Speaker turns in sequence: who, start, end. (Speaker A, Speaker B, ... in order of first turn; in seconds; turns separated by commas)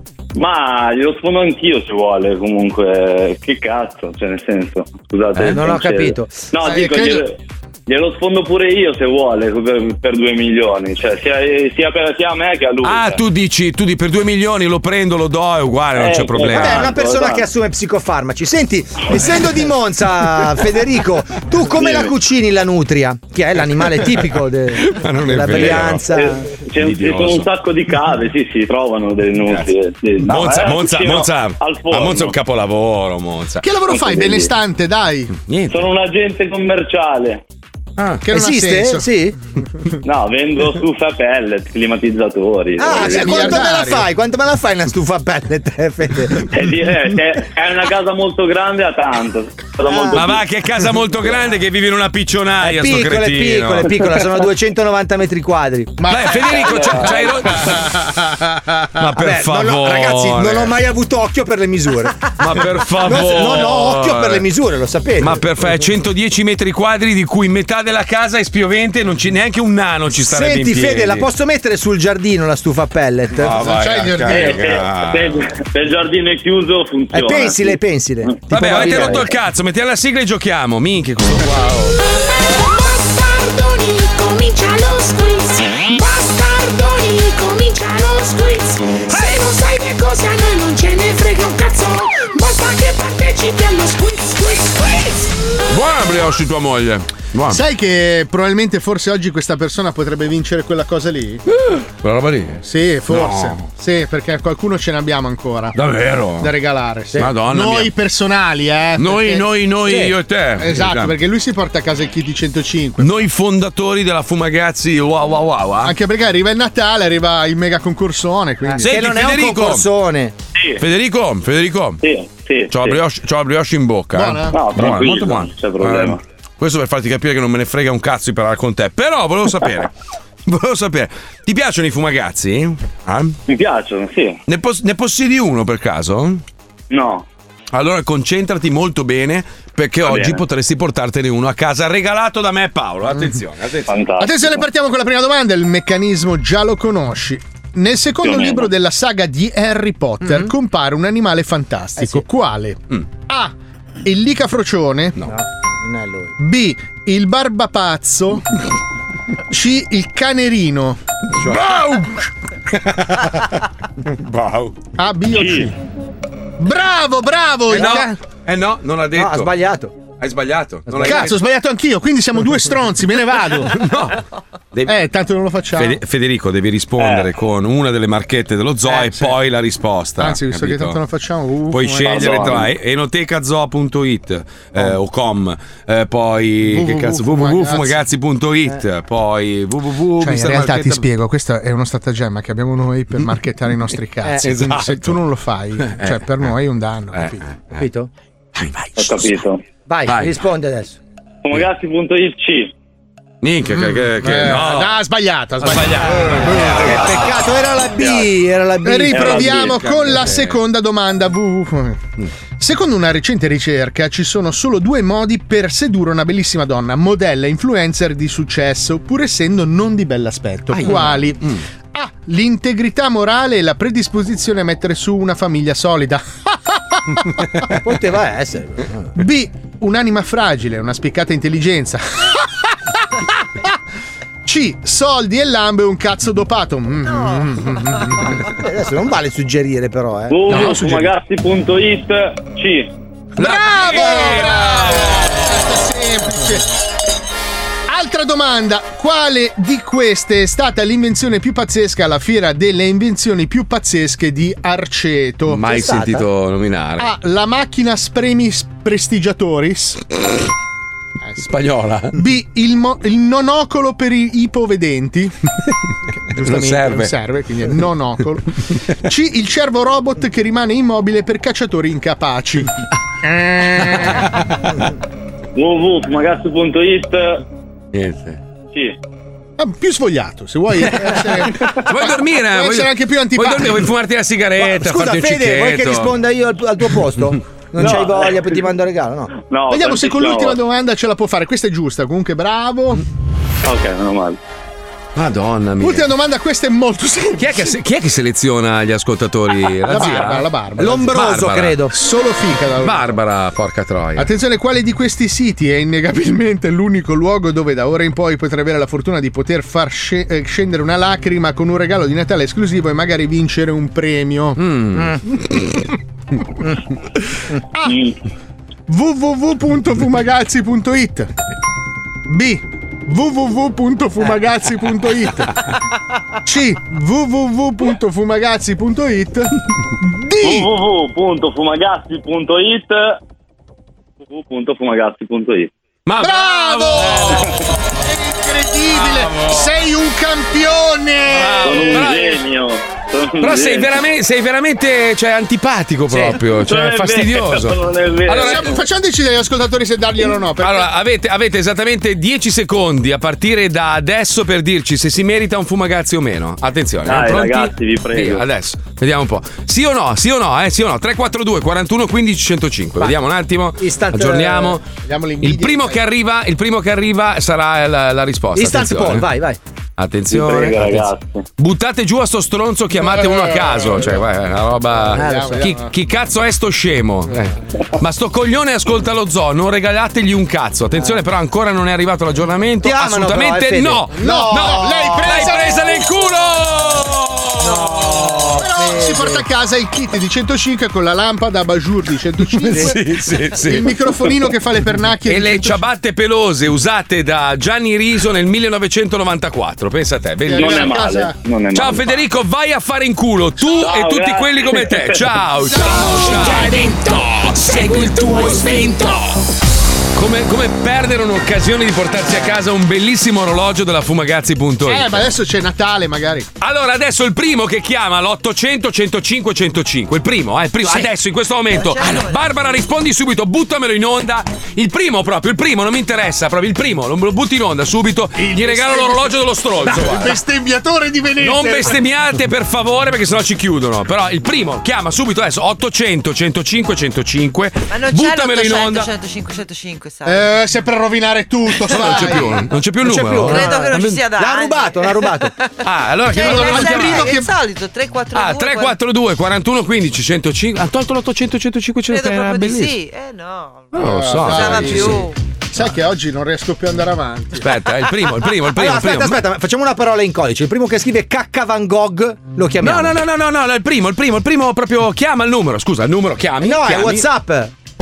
Speaker A: 0.3-13.2, Speaker B: 5.4-6.5, Speaker C: 6.6-7.2, Speaker D: 12.8-16.9, Speaker A: 16.0-17.5, Speaker B: 16.5-26.4, Speaker A: 21.7-22.1, Speaker D: 24.8-26.1, Speaker A: 26.1-32.4, Speaker D: 26.8-27.5, Speaker D: 29.4-33.6, Speaker C: 33.6-35.3, Speaker A: 33.9-34.5, Speaker D: 35.5-35.8, Speaker A: 35.7-37.4, Speaker D: 38.0-38.2, Speaker C: 38.2-39.1, Speaker B: 38.3-39.4, Speaker A: 40.0-43.5, Speaker B: 42.8-46.5, Speaker C: 43.0-44.0, Speaker A: 46.5-50.4, Speaker B: 49.8-50.2, Speaker D: 50.1-54.0, Speaker B: 52.6-56.1, Speaker C: 56.0-58.7, Speaker D: 56.1-57.9, Speaker D: 59.0-60.8, Speaker B: 59.1-65.4, Speaker D: 62.4-64.5, Speaker D: 65.2-71.3, Speaker B: 70.2-73.5, Speaker D: 73.4-75.4, Speaker C: 73.5-74.7, Speaker A: 74.3-77.8, Speaker B: 77.1-79.3, Speaker D: 78.5-82.0, Speaker E: 82.2-95.3, Speaker D: 95.7-97.6, Speaker C: 97.5-101.4, Speaker D: 101.5-103.7, Speaker C: 102.7-105.8, Speaker D: 105.8-106.5, Speaker C: 106.4-109.5, Speaker D: 107.2-107.9, Speaker D: 109.0-111.1, Speaker B: 109.9-110.1, Speaker C: 110.6-113.2, Speaker D: 113.0-116.0, Speaker C: 115.8-119.0, Speaker B: 118.7-120.3, Speaker D: 118.8-119.9, Speaker D: 120.8-122.0, Speaker A: 122.0-123.0, Speaker D: 122.7-129.9, Speaker C: 124.1-124.6, Speaker A: 124.5-126.2, Speaker D: 130.5-133.4, Speaker A: 133.5-134.4, Speaker D: 134.5-136.4, Speaker A: 136.9-137.3, Speaker D: 137.7-144.0, Speaker A: 140.0-140.4, Speaker A: 143.9-144.6, Speaker C: 144.2-153.5, Speaker A: 148.2-148.7, Speaker B: 150.2-150.5, Speaker B: 152.0-152.2, Speaker C: 154.1-155.2, Speaker B: 155.2-156.3, Speaker C: 156.4-158.4, Speaker C: 159.5-162.1, Speaker D: 161.4-162.2, Speaker D: 162.7-163.5, Speaker D: 164.2-164.8, Speaker C: 165.0-165.7, Speaker A: 165.3-165.7, Speaker C: 166.6-168.2, Speaker D: 167.7-169.6, Speaker B: 169.2-169.9, Speaker D: 170.2-171.4, Speaker B: 170.9-171.3, Speaker C: 171.0-173.8, Speaker D: 173.7-174.9, Speaker C: 174.9-176.0, Speaker D: 175.8-181.0, Speaker A: 177.0-177.3, Speaker C: 178.9-179.3, Speaker C: 180.2-182.7, Speaker D: 181.7-191.1, Speaker A: 182.1-182.7, Speaker C: 186.7-188.0, Speaker C: 190.2-197.4, Speaker D: 194.4-195.2, Speaker D: 195.8-196.5, Speaker D: 197.1-197.9, Speaker B: 197.8-198.1, Speaker D: 198.6-198.9, Speaker A: 199.0-199.6, Speaker B: 199.9-201.0, Speaker D: 200.1-200.4, Speaker A: 201.4-202.7, Speaker D: 203.4-205.0, Speaker C: 203.8-207.0, Speaker D: 205.6-207.3, Speaker B: 206.5-209.7, Speaker A: 208.0-208.3, Speaker C: 208.8-212.0, Speaker A: 209.1-209.7, Speaker D: 209.6-210.6, Speaker C: 212.6-227.3, Speaker D: 220.7-221.6, Speaker B: 227.8-229.1, Speaker C: 229.2-232.7, Speaker C: 234.4-238.4, Speaker B: 238.4-240.7, Speaker A: 240.3-242.9, Speaker C: 240.5-241.1, Speaker D: 243.4-245.7, Speaker C: 243.4-246.7, Speaker C: 247.9-255.8, Speaker D: 255.5-257.1, Speaker B: 255.7-256.2, Speaker C: 257.0-260.0, Speaker D: 261.4-262.2, Speaker C: 262.1-265.3, Speaker C: 266.3-272.7, Speaker D: 266.4-267.1, Speaker C: 273.2-274.3, Speaker D: 273.8-274.7, Speaker A: 275.6-277.4, Speaker D: 277.9-278.4, Speaker C: 279.6-283.9, Speaker D: 281.0-286.1, Speaker B: 284.6-289.3, Speaker A: 287.8-288.6, Speaker A: 289.4-290.6, Speaker C: 289.7-293.0, Speaker A: 293.6-294.4, Speaker D: 295.1-296.1, Speaker C: 295.8-297.7, Speaker D: 297.4-301.9, Speaker C: 299.9-301.1, Speaker B: 300.8-301.9, Speaker C: 301.9-303.0, Speaker D: 302.8-304.3, Speaker C: 304.2-314.6, Speaker D: 314.6-315.8, Speaker A: 317.9-318.1, Speaker C: 318.9-321.3, Speaker C: 322.3-325.5, Speaker C: 326.5-330.7, Speaker A: 330.4-333.2, Speaker A: 334.2-335.7, Speaker D: 336.1-337.8, Speaker C: 336.2-337.5, Speaker C: 338.0-342.1, Speaker D: 338.9-339.7, Speaker D: 341.3-342.4, Speaker A: 341.6-343.9, Speaker D: 343.4-348.8, Speaker A: 346.6-348.7, Speaker C: 348.4-350.9, Speaker D: 350.6-364.9, Speaker A: 357.1-358.4, Speaker B: 363.8-364.8, Speaker C: 365.0-366.0, Speaker D: 365.4-369.3, Speaker B: 368.6-369.6, Speaker D: 370.0-388.6, Speaker A: 370.3-371.4, Speaker C: 372.9-374.2, Speaker B: 375.1-375.7, Speaker C: 375.1-375.9, Speaker B: 382.8-385.4, Speaker C: 384.2-386.0, Speaker B: 387.6-389.4, Speaker C: 388.6-393.0, Speaker D: 392.5-394.3, Speaker C: 393.6-395.8, Speaker D: 395.3-401.0, Speaker C: 400.5-401.4, Speaker A: 400.5-402.2, Speaker D: 401.7-406.8, Speaker A: 403.8-405.1, Speaker C: 405.8-406.5, Speaker E: 405.8-409.4, Speaker D: 410.2-415.3, Speaker C: 414.9-416.5, Speaker D: 416.6-430.4, Speaker F: 421.7-422.4, Speaker C: 428.4-432.0, Speaker D: 431.4-439.1, Speaker F: 437.9-440.5, Speaker C: 440.2-442.6, Speaker F: 441.9-442.3, Speaker D: 441.9-444.2, Speaker B: 443.0-445.5, Speaker F: 443.5-445.5, Speaker D: 445.8-447.3, Speaker F: 446.3-449.0, Speaker C: 446.4-447.5, Speaker D: 448.3-453.0, Speaker F: 452.1-455.4, Speaker D: 453.9-455.3, Speaker C: 453.9-457.7, Speaker D: 457.6-459.4, Speaker B: 458.7-463.1, Speaker D: 462.8-467.3, Speaker B: 466.6-467.7